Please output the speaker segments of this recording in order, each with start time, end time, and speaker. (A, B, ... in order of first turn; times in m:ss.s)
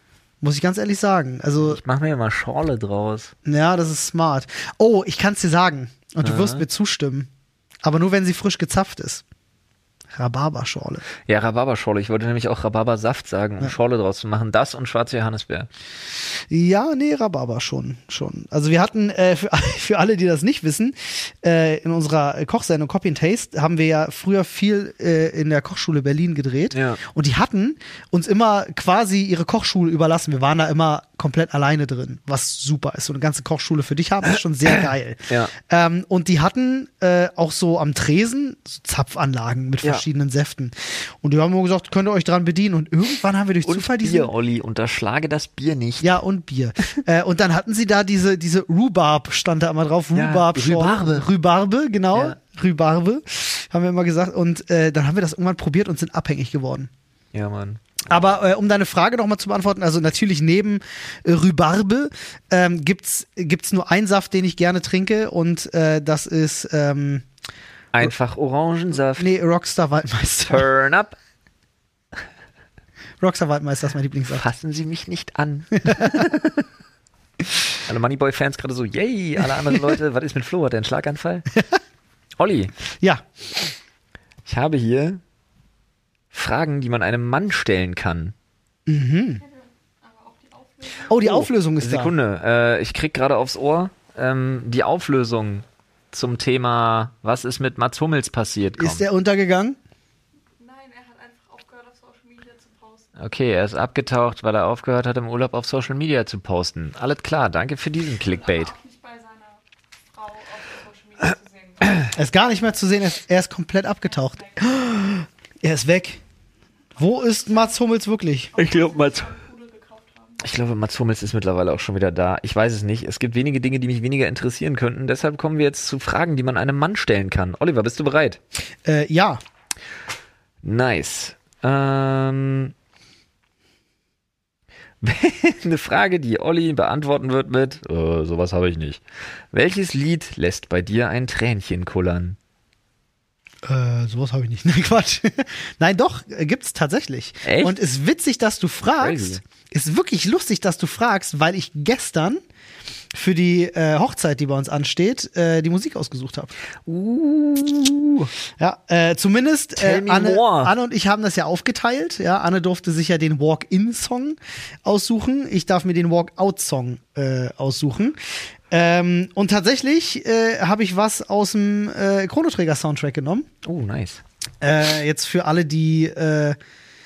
0:00.4-0:01.8 A
0:01.6-0:03.3 B
0:03.4-0:07.3 A
0:06.2-0:06.6 B
0:07.8-0:09.2 A
0:10.1-0:11.0 A
0:11.2-0:15.7 B
0:16.5-0:44.3 A
0:26.7-0:27.0 B
0:43.6-0:46.2 B
0:46.0-0:56.9 A
0:50.1-0:51.3 B
0:57.3-0:58.0 B
0:58.1-1:07.2 A
1:07.9-1:09.3 B
1:09.2-1:10.7 A
1:10.5-1:11.2 B
1:13.2-1:14.4 A
1:14.3-1:16.6 B
1:15.8-1:16.3 A
1:17.8-1:21.5 B
1:22.4-1:22.7 B
1:24.4-1:25.2 B
1:26.3-1:28.3 B
1:28.9-1:29.4 A
1:29.4-1:31.1 C
1:31.1-1:32.1 A
1:31.2-1:39.0 B
1:38.8-1:39.8 A
1:40.6-1:43.2 C
1:43.2-1:48.7 B
1:48.3-1:49.6 C
1:50.1-1:52.1 C
1:52.1-1:56.2 A
1:57.0-1:58.5 A
1:57.0-1:57.7 C
1:58.5-2:00.5 C
1:58.6-1:59.4 B
2:00.4-2:08.4 B
2:08.8-2:09.4 A
2:10.6-2:12.7 B
2:15.0-2:22.4 B
2:23.6-2:32.4 A
2:27.4-2:27.7 B
2:29.0-2:29.4 B
2:33.1-2:36.5 A
2:36.8-2:38.3 B
2:38.6-2:48.2 A
2:39.8-2:40.7 B
2:48.7-2:53.5 A
2:53.6-2:54.2 B
2:54.6-2:56.6 A